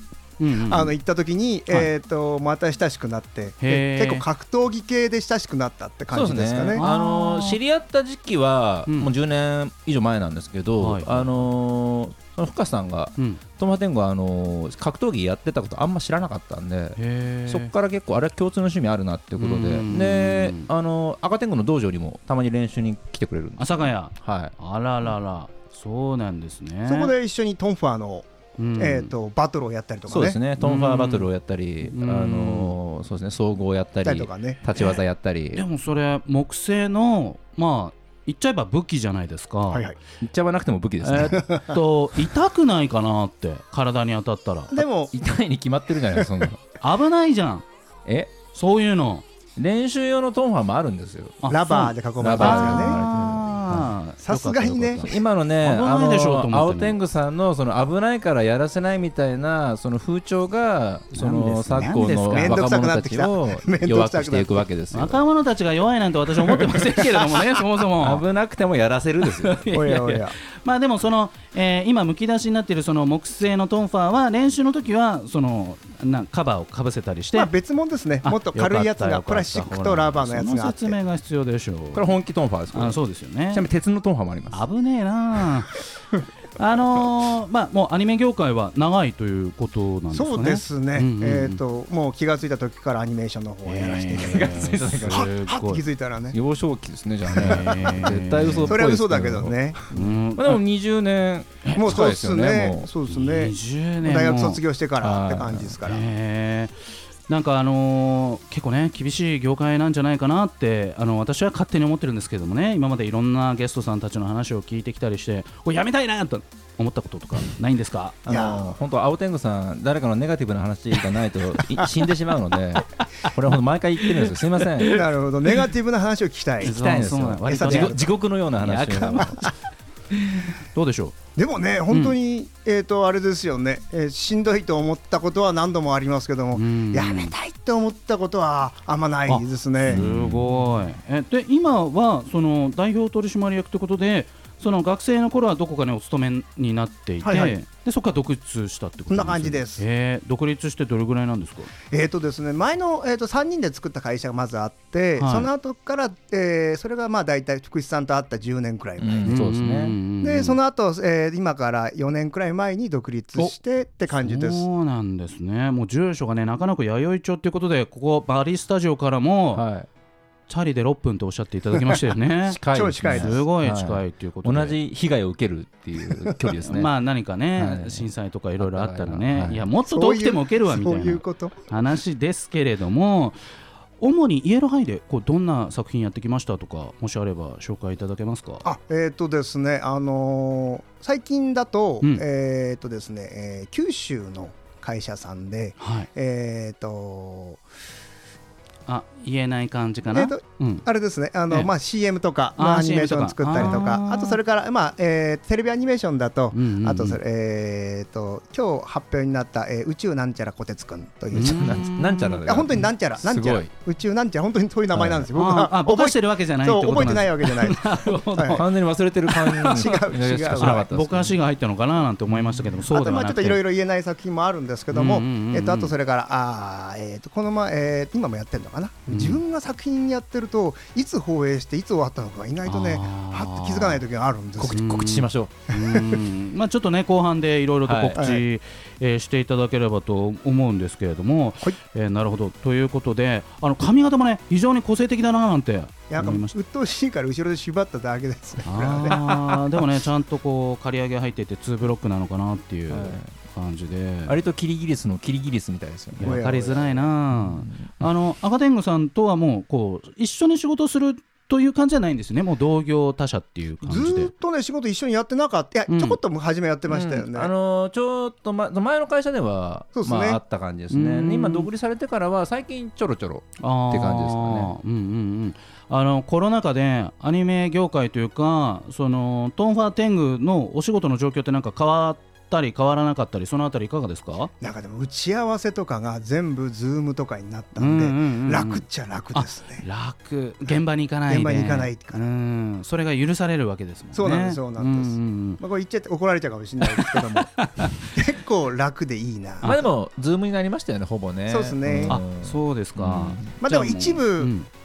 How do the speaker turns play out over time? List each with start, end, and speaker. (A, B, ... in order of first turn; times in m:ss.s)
0:00.4-0:01.0 A
0:00.5-0:06.8 B
0:03.6-0:04.2 A
0:06.1-0:24.5 C
0:06.7-0:07.6 A
0:10.8-0:11.4 A
0:13.2-0:13.4 A
0:17.0-0:17.7 A
0:19.4-0:20.7 A
0:23.6-0:27.1 A
0:26.8-0:28.2 B
0:28.6-0:29.1 A
0:28.8-0:30.4 B
0:30.1-0:35.6 C
0:30.6-0:31.3 A
0:31.8-0:32.8 A
0:34.0-0:34.6 B
0:35.5-0:39.9 A
0:39.7-0:40.0 B
0:40.2-0:41.4 C
0:41.0-0:44.7 A
0:41.3-0:41.8 B
0:44.7-0:45.1 B
0:45.1-0:46.6 C
0:46.8-0:47.6 A
0:48.0-0:48.3 C
0:48.5-0:49.2 A
0:49.6-0:51.4 C
0:51.4-0:57.0 A
0:51.5-0:53.0 B
0:52.2-0:53.9 C
0:54.2-0:55.1 B
0:55.0-1:05.2 C
1:01.1-1:02.6 A
1:01.8-1:04.6 B
1:04.9-1:08.2 A
1:06.5-1:07.4 B
1:08.0-1:09.6 C
1:09.2-1:17.5 A
1:09.7-1:10.4 B
1:17.3-1:21.0 B
1:18.2-1:22.2 A
1:21.9-1:23.0 C
1:22.7-1:23.6 A
1:23.5-1:24.6 C
1:24.5-1:25.9 A
1:26.6-1:31.6 A
1:30.1-1:36.4 B
1:33.6-1:35.8 A
1:34.2-1:35.3 C
1:36.3-1:39.6 C
1:37.3-1:38.8 A
1:37.3-1:37.9 B
1:38.7-1:39.9 B
1:39.9-1:40.6 A
1:40.4-1:42.9 C
1:41.7-1:46.0 B
1:43.1-1:44.6 A
1:45.0-1:45.8 C
1:45.8-1:46.7 A
1:47.3-1:58.2 A
1:58.3-1:58.7 B
1:58.3-2:05.0 C
2:04.9-2:06.7 B
2:06.6-2:09.4 C
2:06.6-2:09.5 A
2:07.4-2:08.1 B
2:09.0-2:09.5 B
2:10.1-2:11.1 A
2:11.4-2:20.0 B
2:11.9-2:12.2 A
2:16.5-2:17.3 A
2:19.3-2:31.7 A
2:19.8-2:20.7 C
2:27.2-2:27.6 B
2:29.1-2:29.8 B
2:31.9-2:39.4 B
2:35.2-2:35.5 A
2:39.0-2:40.0 C
2:39.2-2:40.6 A
2:40.2-2:44.6 B
2:44.1-2:49.6 A
2:49.5-2:49.9 C
2:50.5-2:54.8 A
2:52.4-2:56.9 C
2:52.7-2:53.4 B
2:56.6-3:03.4 A
2:57.6-2:58.1 C
2:58.6-2:59.7 C
2:59.8-3:01.6 B
3:04.0-3:08.6 A
3:08.6-3:17.6 B
3:15.8-3:16.1 A
3:18.9-3:20.8 A
3:20.1-3:31.9 B
3:22.6-3:24.4 A
3:26.5-3:27.2 A
3:31.3-3:32.4 A
3:31.3-3:33.7 C
3:32.4-3:38.6 B
3:34.9-3:35.2 C
3:35.3-3:38.7 A
3:38.5-3:41.3 C
3:39.3-3:39.8 A
3:39.6-3:40.9 B
3:40.6-3:43.6 A
3:42.4-3:42.6 C
3:42.8-3:54.8 B
3:44.9-3:45.9 A
3:49.1-3:49.4 A
3:52.6-3:54.0 A
3:54.6-3:55.5 C
3:54.7-4:06.5 A
3:55.8-3:56.2 B
3:57.8-3:58.2 C
3:58.2-3:58.4 B
4:06.1-4:09.2 B
4:08.6-4:14.4 A
4:12.9-4:13.3 C
4:14.3-4:16.4 C
4:16.2-4:24.3 A
4:16.2-4:17.1 B
4:17.3-4:18.1 C
4:23.8-4:27.5 B
4:25.9-4:26.2 A
4:26.9-4:34.7 C
4:29.9-4:30.4 B
4:30.9-4:31.7 A
4:33.6-4:44.5 A
4:44.6-4:49.8 B
4:47.8-4:48.8 A
4:49.3-4:55.6 A
4:50.7-4:52.2 B
4:54.1-4:59.8 B
4:56.8-4:58.0 A
4:59.6-4:59.9 A
4:59.6-5:03.5 C
5:01.5-5:02.2 B
5:02.1-5:04.7 A
5:03.6-5:04.5 B